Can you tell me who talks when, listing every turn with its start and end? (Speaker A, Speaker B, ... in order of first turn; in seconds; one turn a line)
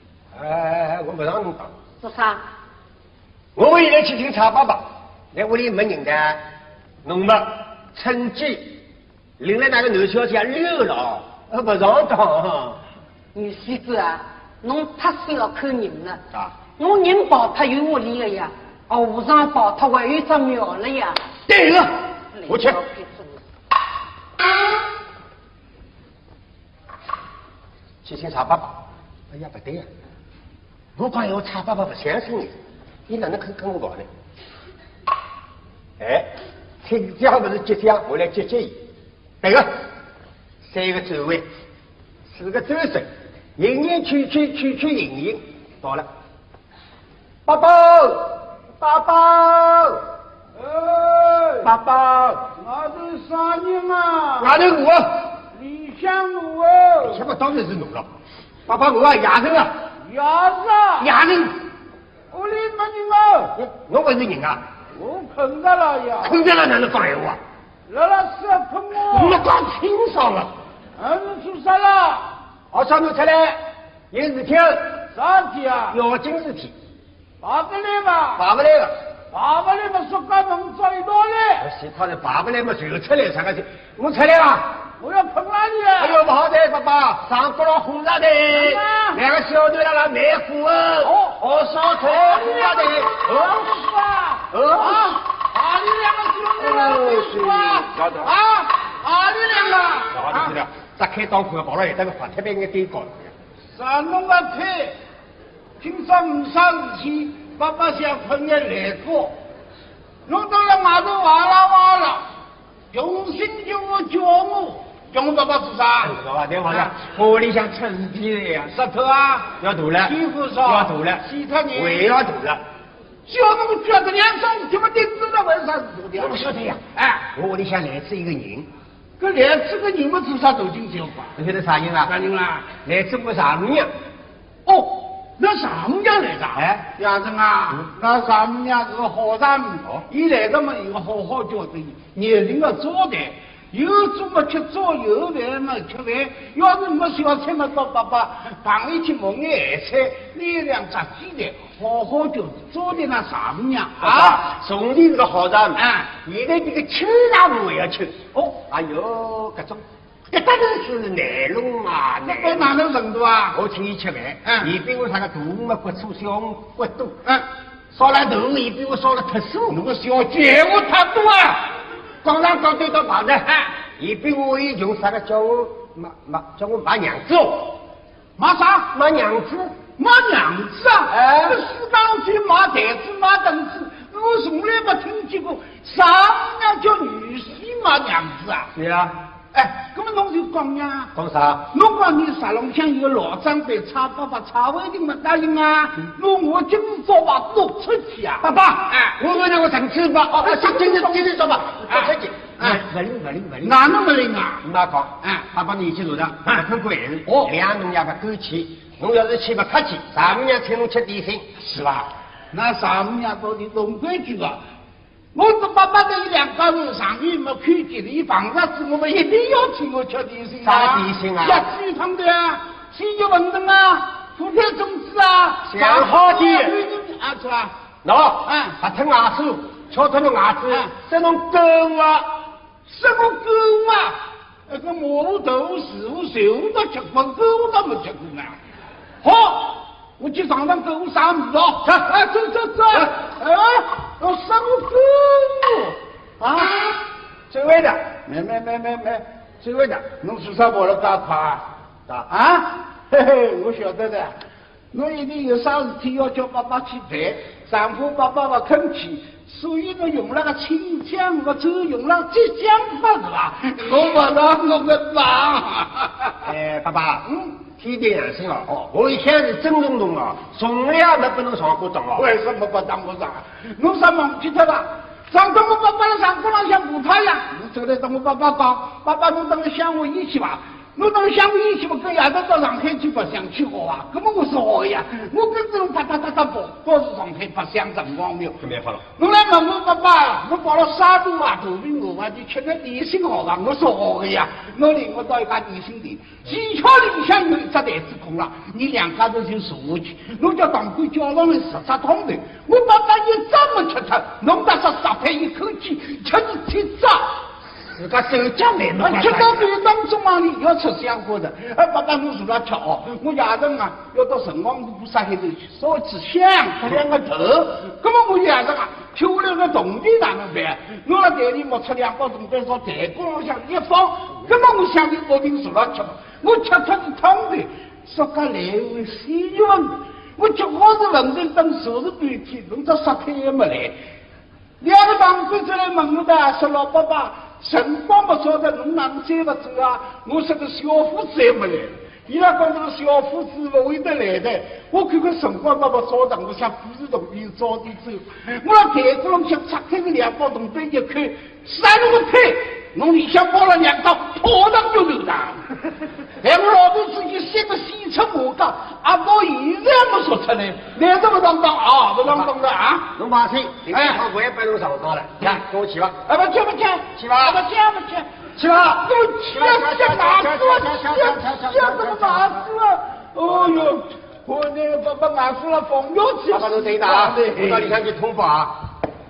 Speaker A: 0.3-1.7
Speaker B: 2.0-2.4
Speaker A: 3.6-6.4
Speaker A: 7.0-8.8
Speaker A: 9.4-12.8
Speaker B: 13.3-16.2
Speaker B: 16.8-21.2
Speaker A: 21.5-21.9
Speaker B: 22.3-23.4
Speaker A: 22.5-22.8
Speaker A: 28.0-29.9
Speaker A: 31.0-32.5
Speaker A: 33.1-34.1
Speaker A: 36.0-36.3
Speaker A: 36.8-38.8
Speaker A: 39.4-39.7
Speaker A: 40.6-41.5
Speaker A: 42.3-46.1
Speaker A: 47.5-50.0
Speaker C: 50.6-51.7
Speaker A: 51.6-52.5
Speaker C: 52.5-54.6
Speaker A: 54.4-55.3
Speaker C: 55.5-57.2
Speaker A: 57.0-58.1
Speaker A: 58.7-59.7
Speaker C: 60.0-61.1
Speaker A: 61.0-61.6
Speaker C: 62.3-63.5
Speaker A: 63.6-64.6
Speaker C: 65.0-66.4
Speaker A: 66.2-67.4
Speaker C: 67.9-69.4
Speaker A: 69.1-70.5
Speaker C: 71.0-72.3
Speaker A: 72.7-73.6
Speaker A: 74.1-75.0
Speaker C: 75.1-76.0
Speaker A: 75.9-76.7
Speaker C: 77.4-78.4
Speaker A: 78.4-79.0
Speaker C: 79.3-81.7
Speaker A: 81.6-84.8
Speaker C: 85.0-86.2
Speaker A: 86.0-93.7
Speaker C: 88.5-89.2
Speaker C: 91.0-91.4
Speaker C: 92.0-100.5
Speaker A: 94.5-95.2
Speaker A: 96.6-98.1
Speaker A: 100.1-103.3
Speaker C: 103.7-105.0
Speaker C: 105.8-109.4
Speaker C: 110.3-112.2
Speaker C: 112.9-116.2
Speaker A: 116.0-118.8
Speaker C: 118.7-119.5
Speaker A: 119.6-122.6
Speaker C: 120.0-122.1
Speaker C: 123.3-126.4
Speaker A: 126.2-128.7
Speaker C: 127.0-127.2
Speaker C: 129.2-131.3
Speaker A: 131.4-132.2
Speaker C: 132.1-132.7
Speaker A: 132.8-133.9
Speaker C: 134.7-154.4
Speaker A: 136.6-136.9
Speaker A: 154.0-162.8
Speaker C: 155.8-156.1
Speaker C: 162.2-163.6
Speaker A: 163.5-167.2
Speaker C: 164.5-164.7
Speaker A: 167.9-169.8
Speaker C: 169.7-171.7
Speaker A: 172.2-177.8
Speaker C: 178.4-178.9
Speaker A: 178.9-179.8
Speaker C: 180.0-188.7
Speaker A: 181.1-181.6
Speaker A: 188.8-189.2
Speaker C: 189.5-191.1
Speaker A: 191.2-191.7
Speaker C: 191.7-199.2
Speaker A: 198.4-203.9
Speaker C: 200.3-202.8
Speaker C: 203.6-204.6
Speaker A: 204.6-211.5
Speaker C: 211.6-214.6
Speaker C: 215.3-227.7
Speaker A: 220.6-221.7
Speaker A: 225.7-226.8
Speaker A: 228.0-232.3
Speaker C: 228.5-228.7
Speaker C: 232.9-238.6
Speaker C: 239.2-247.0
Speaker A: 247.5-248.1
Speaker C: 248.2-249.2
Speaker A: 249.6-250.1
Speaker C: 250.1-251.6
Speaker C: 252.3-254.4
Speaker C: 254.9-266.4
Speaker A: 266.4-272.3
Speaker C: 272.2-288.6
Speaker A: 288.6-289.0
Speaker C: 289.2-307.4
Speaker A: 307.9-309.7
Speaker C: 309.0-333.9
Speaker C: 334.8-355.8
Speaker C: 356.4-363.1
Speaker A: 362.2-362.5
Speaker A: 363.1-366.2
Speaker C: 363.9-364.2
Speaker C: 366.3-378.0
Speaker A: 367.2-367.6
Speaker A: 368.6-372.6
Speaker A: 376.5-378.8